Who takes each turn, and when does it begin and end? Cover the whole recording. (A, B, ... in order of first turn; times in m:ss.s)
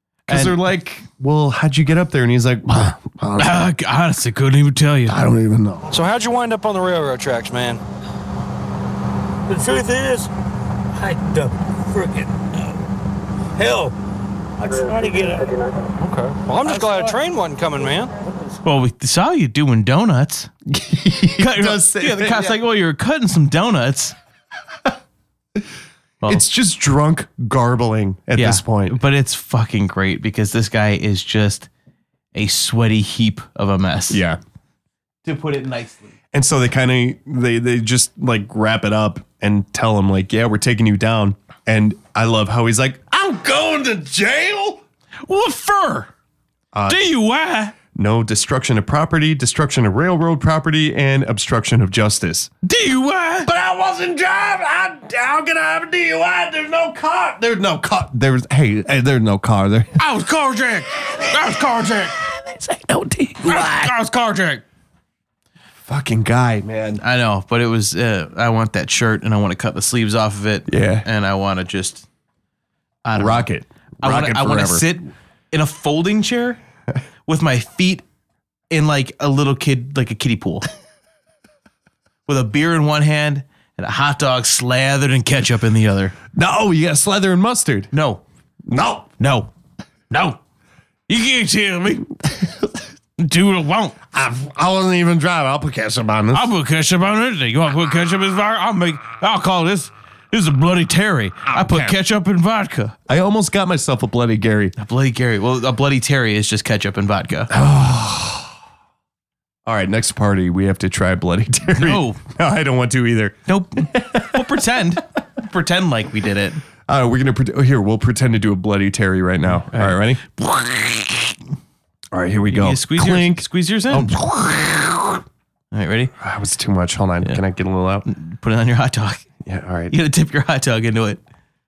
0:00.3-0:00.6 A
0:00.3-0:03.7 B
0:03.4-0:05.2 A
0:05.1-0:05.9 B
0:05.9-0:07.8 C
0:09.5-0:10.3 D
0:11.0-0:12.8 D
0:13.6-0:14.0 D
0:14.6-0:15.6 D
0:16.0-0:18.1 C
0:16.6-0:17.2 D
0:18.6-0:20.5 A
0:20.7-0:22.6 B
0:21.4-0:24.2 A
0:26.3-0:29.0 B
0:28.4-0:31.7 A
0:32.4-0:34.2 A
0:34.1-0:34.4 B
0:35.2-0:36.1 A
0:36.3-0:44.8 B
0:45.3-0:46.1 A
0:46.7-0:47.1 B
0:46.9-0:47.7 A
0:47.9-0:52.5 B
0:52.6-0:53.5 A
0:53.4-1:00.0 B
1:00.0-1:02.2 A
1:02.2-1:04.0 B
1:03.4-1:04.6 A
1:05.8-1:07.0 B
1:07.0-1:12.0 A
1:10.7-1:11.1 B
1:13.0-1:13.5 A
1:13.2-1:14.9 B
1:14.0-1:16.6 A
1:17.3-1:18.0 A
1:18.7-1:20.7 A
1:22.3-1:26.2 A
1:26.3-1:27.9 B
1:27.9-1:28.2 A
1:28.7-1:29.1 B
1:29.2-1:29.5 A
1:30.1-1:30.4 A
1:31.1-1:32.1 A
1:32.3-1:32.6 B
1:33.2-1:34.0 A
1:34.1-1:36.5 B
1:36.3-1:43.0 A
1:41.5-1:42.0 B
1:43.1-1:44.7 B
1:44.8-1:47.5 A
1:47.5-1:48.5 B
1:49.6-1:54.4 B
1:51.8-1:52.2 A
1:53.5-1:56.6 A
1:56.9-2:00.2 B
1:59.6-2:01.3 A
2:02.1-2:05.2 B
2:02.5-2:04.1 A
2:05.7-2:06.1 A
2:06.2-2:08.1 B
2:08.1-2:09.2 A
2:09.4-2:10.0 B
2:09.9-2:11.2 A